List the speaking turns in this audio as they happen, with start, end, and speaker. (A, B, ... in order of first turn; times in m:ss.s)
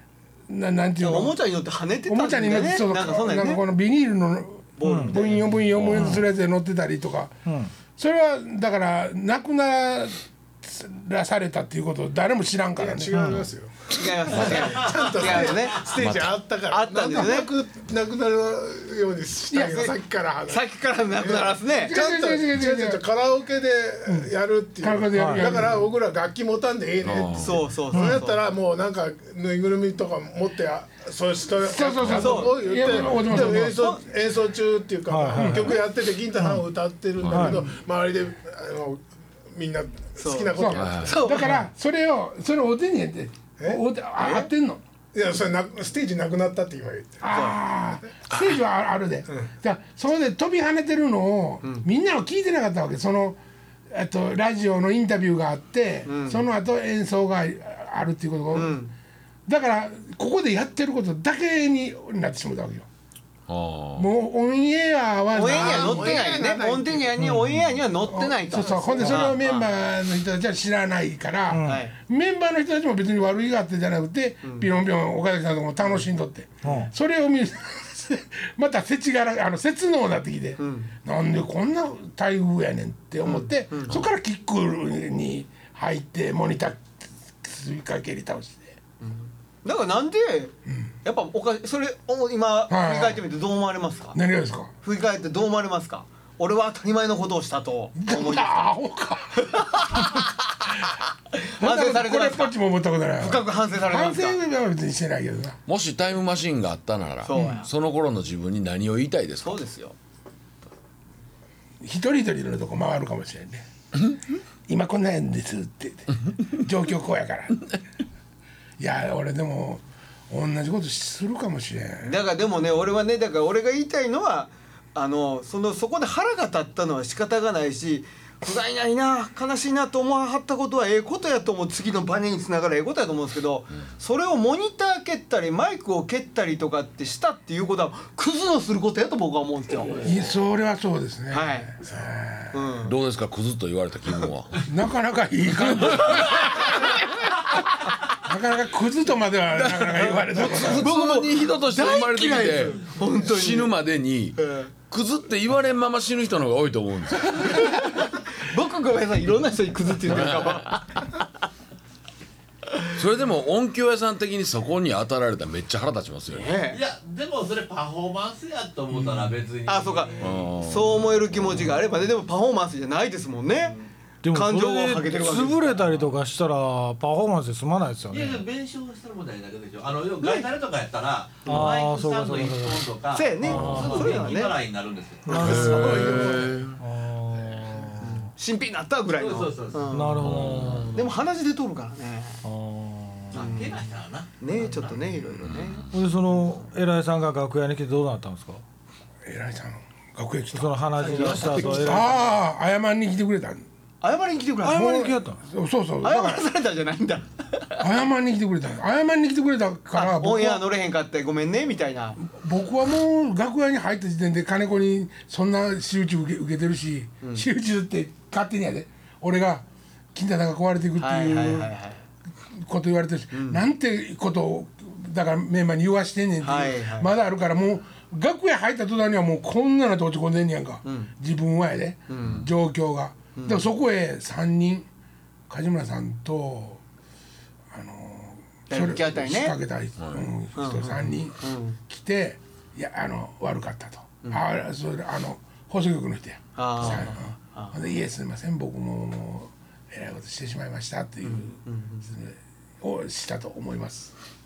0:00.5-0:01.4 A
0:01.0-0:03.6 B
0:02.1-0:07.4 A
0:04.8-0:05.6 B
0:04.8-0:05.2 C
0:05.7-0:06.2 D
0:05.9-0:06.2 C
0:07.4-0:07.7 C
0:07.9-0:13.2 A
0:12.8-0:41.2 E
0:13.1-0:13.5 C
0:13.9-0:15.9 B
0:16.0-0:16.4 D
0:16.7-0:17.5 B
0:19.5-0:19.9 B
0:19.5-0:19.8 A
0:20.5-0:22.0 B
0:21.8-0:23.0 A
0:24.1-0:25.9 A
0:25.1-0:25.6 C
0:27.0-0:27.7 D
0:27.3-0:28.4 B
0:27.9-0:28.2 C
0:31.6-0:33.9 A
0:32.1-0:34.0 B
0:35.1-0:35.8 C
0:35.4-0:35.7 A
0:36.4-0:36.7 C
0:37.2-0:37.6 D
0:37.3-0:37.7 C
0:40.2-0:41.5 B
0:40.6-0:44.8 A
0:40.7-0:41.3 D
0:41.3-0:41.6 C
0:44.2-0:44.5 B
0:45.1-0:47.3 E
0:47.2-0:58.8 A
0:47.3-0:47.6 B
0:56.0-0:56.4 B
0:58.5-0:58.9 B
0:59.5-1:02.9 A
1:03.5-1:04.1 D
1:04.0-1:06.2 A
1:05.3-1:09.7 B
1:05.4-1:07.2 E
1:07.2-1:07.8 C
1:08.0-1:28.7 A
1:08.5-1:09.3 E
1:11.5-1:11.8 C
1:11.6-1:11.9 B
1:14.4-1:14.7 B
1:16.6-1:16.9 C
1:20.6-1:20.9 B
1:23.2-1:24.0 B
1:29.0-1:34.2 B
1:32.7-1:33.2 A
1:34.1-1:34.7 A
1:34.8-1:38.6 B
1:38.0-1:39.6 A
1:39.4-1:40.3 B
1:41.3-1:42.5 B
1:41.6-1:45.6 A
1:43.2-1:44.4 B
1:45.7-1:49.6 D
1:47.2-1:47.7 B
1:49.4-1:50.0 B
1:51.8-1:53.6 A
1:54.7-1:57.7 A
1:58.8-2:02.2 A
2:02.0-2:20.2 B
2:20.0-2:22.7 A
2:21.3-2:21.8 B
2:22.5-2:22.9 B
2:22.8-2:24.7 D
2:24.7-2:26.8 A
2:28.2-2:30.9 A
2:29.5-2:37.7 D
2:30.4-2:33.7 B
2:34.4-2:34.7 B
2:37.4-2:41.1 B
2:40.1-2:40.7 D
2:43.0-2:46.5 D
2:46.3-2:46.8 B
2:46.7-2:50.5 F
2:49.6-2:53.8 B
2:50.2-2:51.7 D
2:54.2-2:58.4 C
2:54.3-2:55.8 B
2:58.1-3:05.5 F
3:00.2-3:00.5 B
3:01.4-3:02.9 C
3:03.1-3:04.6 B
3:03.4-3:04.4 C
3:05.3-3:06.6 E
3:05.3-3:08.3 C
3:05.3-3:06.8 D
3:08.0-3:10.4 B
3:09.2-3:09.9 F
3:09.9-3:11.1 C
3:10.2-3:11.0 D
3:10.9-3:12.4 B
3:12.4-3:13.5 C
3:13.3-3:15.0 F
3:13.3-3:13.8 B
3:14.4-3:15.8 B
3:15.4-3:15.9 D
3:15.9-3:18.6 C
3:19.2-3:23.6 A
3:20.5-3:22.2 C
3:21.0-3:22.2 B
3:24.0-3:25.0 B
3:24.6-3:25.4 C
3:24.7-3:26.5 A
3:26.0-3:27.8 B
3:27.8-3:30.7 A
3:29.9-3:32.2 B
3:32.2-3:41.7 A
3:41.0-3:42.0 B
3:42.5-3:54.9 A
3:43.3-3:43.6 B
3:46.4-3:47.1 B
3:50.8-3:51.1 B
3:52.1-3:52.4 B
3:53.4-3:53.7 B
3:55.5-3:56.8 A
3:57.7-4:14.1 A
3:58.7-3:59.6 B
4:00.0-4:00.3 D
4:00.5-4:01.8 B
4:06.6-4:07.8 B
4:11.2-4:12.1 B